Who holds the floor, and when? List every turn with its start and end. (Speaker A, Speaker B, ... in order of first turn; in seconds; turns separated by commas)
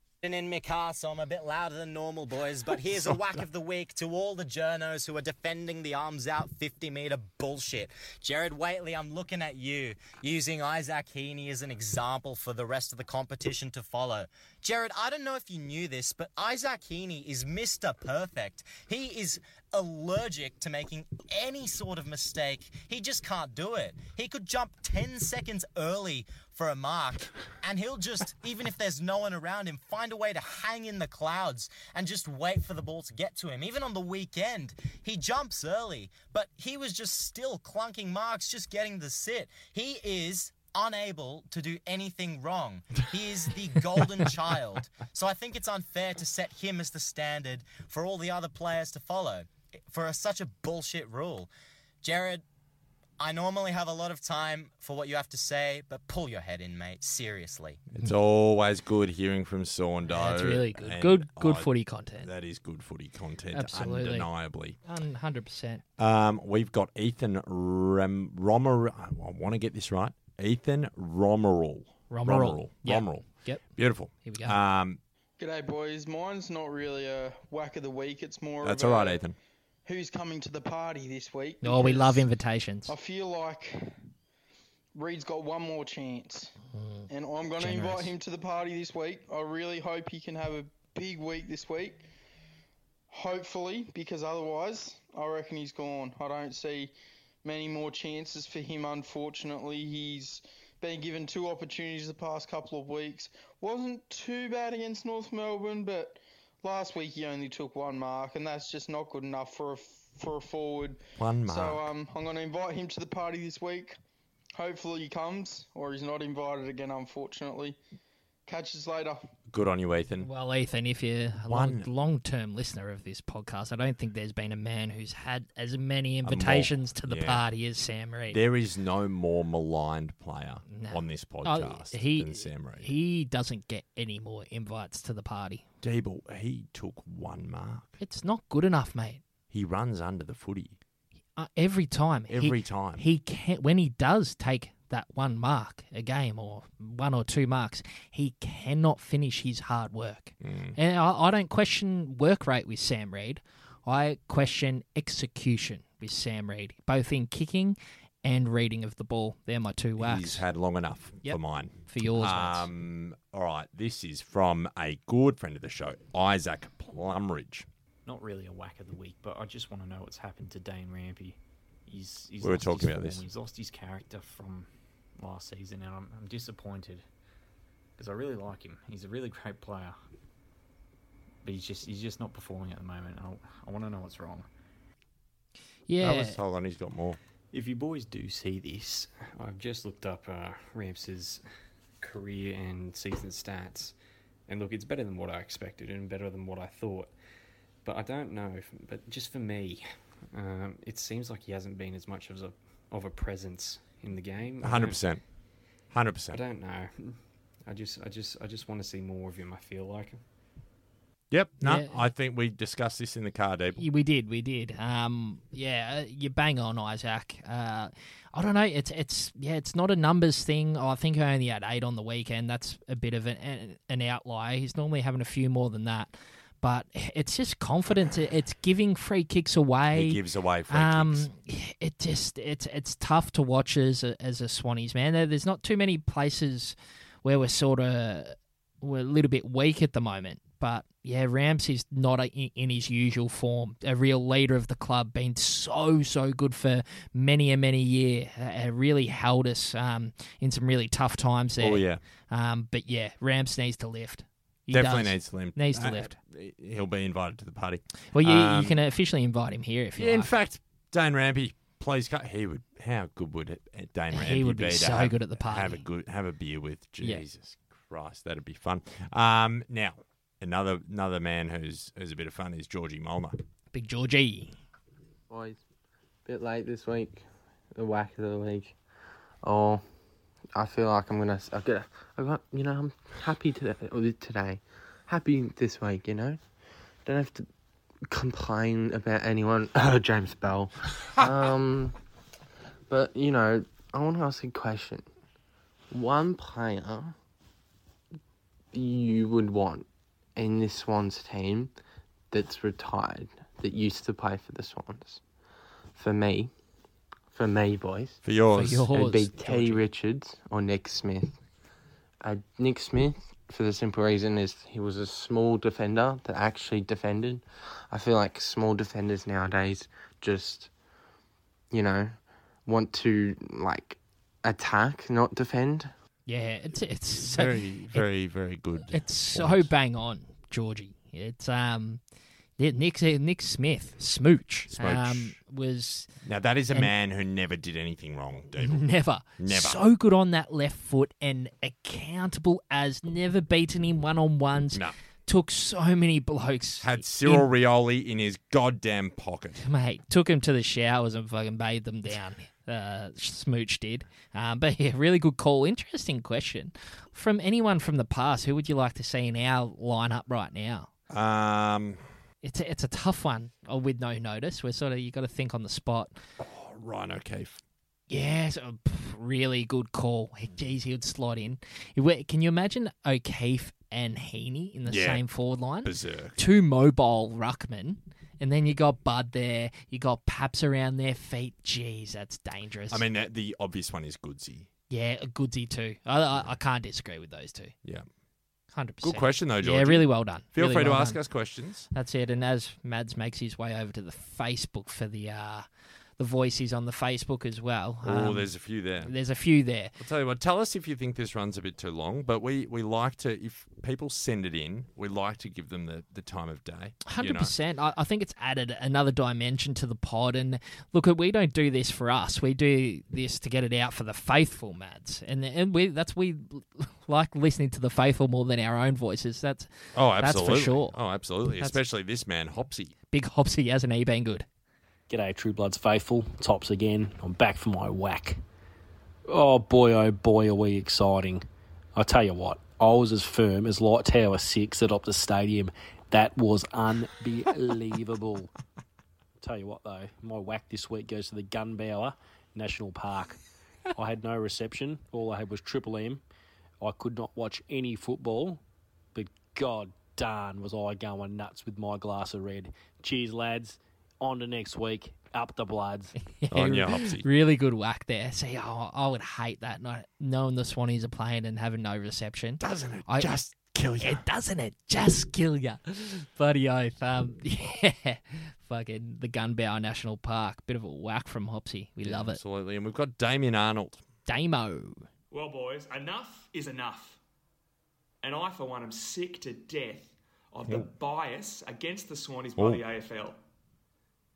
Speaker A: 0.2-51.5, Speaker A: 52.0-52.4, Speaker A: 53.2-57.8, Speaker B: 57.9-64.8, Speaker C: 60.1-62.3, Speaker C: 63.5-64.3, Speaker C: 64.8-65.8, Speaker B: 66.0-75.0, Speaker C: 72.1-73.6, Speaker C: 74.2-74.6, Speaker D: 75.4-79.2, Speaker B: 78.6-79.4, Speaker D: 79.9-82.3, Speaker C: 81.6-82.9, Speaker D: 82.9-84.0, Speaker D: 85.0-86.5, Speaker C: 86.7-88.1, Speaker D: 87.1-92.1, Speaker D: 93.1-96.9, Speaker D: 97.4-114.0, Speaker B: 111.2-111.8, Speaker D: 114.5-117.8, Speaker D: 118.5-119.2, Speaker B: 119.5-120.3, Speaker C: 120.2-128.4, Speaker B: 121.5-121.9, Speaker B: 126.2-127.5, Speaker B: 128.3-132.9, Speaker C: 130.7-135.7, Speaker B: 135.8-138.0, Speaker C: 138.0-139.2, Speaker B: 139.5-140.8, Speaker C: 141.4-160.4, Speaker B: 142.3-143.1, Speaker B: 150.4-150.8, Speaker B: 160.0-167.7, Speaker C: 161.2-162.7, Speaker E: 168.1-177.1, Speaker B: 172.4-173.2, Speaker E: 178.0-180.0, Speaker E: 181.4-184.5, Speaker C: 185.9-186.4, Speaker B: 186.0-187.2, Speaker E: 187.5-191.4, Speaker E: 192.0-193.9, Speaker E: 194.5-197.1, Speaker E: 197.8-205.0, Speaker B: 204.6-205.2, Speaker B: 205.9-206.4, Speaker E: 206.3-210.2, Speaker B: 211.3-213.8, Speaker C: 211.6-212.0, Speaker C: 213.8-256.2, Speaker B: 229.9-231.3, Speaker B: 251.6-252.0, Speaker B: 254.7-258.8, Speaker C: 258.1-260.3, Speaker B: 260.0-273.4, Speaker C: 264.1-265.8, Speaker C: 273.7-274.6, Speaker F: 275.3-275.6, Speaker F: 276.3-278.8, Speaker F: 279.4-279.8, Speaker F: 280.6-286.4, Speaker F: 287.1-287.5, Speaker F: 288.1-292.0, Speaker F: 292.9-295.1, Speaker F: 295.9-297.1, Speaker F: 298.7-301.7, Speaker F: 302.3-305.2, Speaker F: 305.9-306.5, Speaker F: 307.3-308.2, Speaker B: 308.2-308.9, Speaker C: 308.5-309.8, Speaker F: 308.9-311.3, Speaker F: 312.2-320.7, Speaker F: 321.7-325.9, Speaker C: 326.3-328.1, Speaker B: 327.1-329.7, Speaker C: 328.9-332.0, Speaker C: 332.6-336.1, Speaker B: 334.7-335.4, Speaker B: 336.2-338.9, Speaker C: 338.6-347.5, Speaker B: 339.4-339.8, Speaker B: 346.8-349.6, Speaker C: 349.6-360.9, Speaker B: 361.1-362.0, Speaker C: 362.4-366.1, Speaker B: 366.4-367.6, Speaker C: 368.1-383.1, Speaker B: 374.9-375.2, Speaker B: 375.8-376.4, Speaker B: 382.9-384.7, Speaker C: 384.9-387.7, Speaker C: 388.7-391.2, Speaker B: 389.0-391.9, Speaker C: 391.9-395.7, Speaker C: 396.2-398.5, Speaker B: 398.0-399.1, Speaker C: 399.0-399.9, Speaker B: 400.0-407.5, Speaker C: 407.1-421.0, Speaker B: 419.9-422.9, Speaker C: 423.1-424.5, Speaker G: 425.1-428.4, Speaker G: 429.3-431.4, Speaker G: 432.0-438.5, Speaker G: 439.4-443.4, Speaker G: 443.9-446.2, Speaker G: 446.8-448.6, Speaker G: 449.1-456.1, Speaker C: 456.4-463.3, Speaker B: 456.5-457.3, Speaker B: 462.6-464.2, Speaker C: 464.0-472.4, Speaker B: 472.0-474.0, Speaker C: 474.3-475.0, Speaker H: 475.3-477.2, Speaker H: 478.2-483.4, Speaker B: 482.6-482.8